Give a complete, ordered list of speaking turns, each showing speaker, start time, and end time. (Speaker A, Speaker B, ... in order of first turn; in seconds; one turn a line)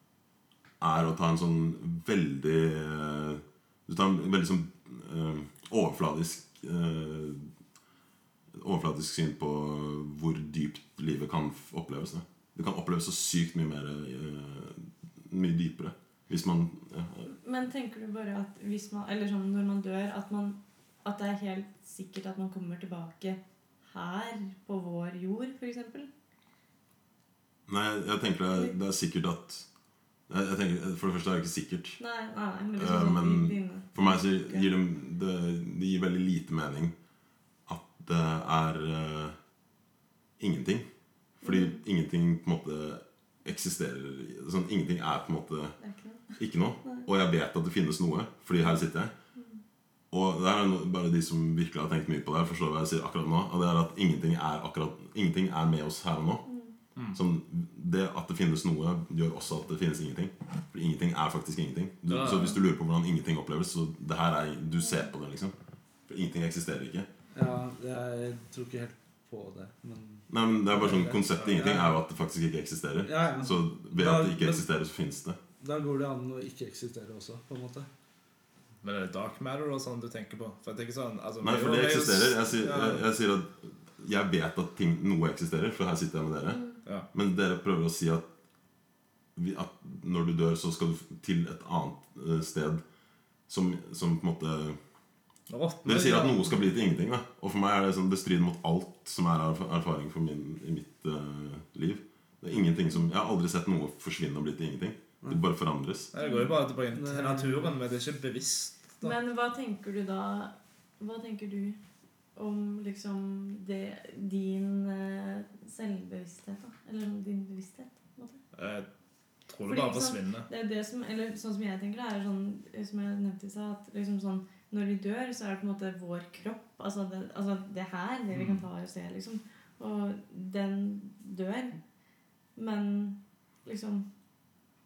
Speaker A: 0.8-7.5
Speaker A: 8.5-17.3
Speaker B: 17.4-26.1
Speaker A: 27.7-29.7
Speaker A: 30.3-32.0
Speaker B: 32.0-34.7
Speaker A: 32.8-36.9
Speaker A: 37.7-39.4
Speaker A: 40.4-40.9
Speaker A: 41.4-45.8
Speaker B: 41.4-41.8
Speaker B: 45.8-46.3
Speaker A: 46.4-49.1
Speaker A: 50.1-56.5
Speaker B: 56.5-56.8
Speaker A: 57.1-65.5
Speaker C: 62.1-62.6
Speaker A: 66.1-67.1
Speaker D: 67.3-71.9
Speaker A: 70.3-75.4
Speaker C: 71.4-71.8
Speaker D: 73.0-74.7
Speaker D: 75.6-77.9
Speaker C: 78.8-83.0
Speaker A: 81.4-88.3
Speaker A: 89.4-92.8
Speaker A: 93.5-94.8
Speaker C: 95.5-96.6
Speaker A: 95.8-106.1
Speaker C: 106.1-109.1
Speaker B: 106.2-106.6
Speaker D: 106.9-107.8
Speaker B: 109.0-111.8
Speaker B: 112.4-118.4
Speaker C: 118.5-118.9
Speaker C: 119.5-120.5
Speaker B: 119.7-131.8
Speaker C: 128.3-128.7
Speaker B: 132.6-134.1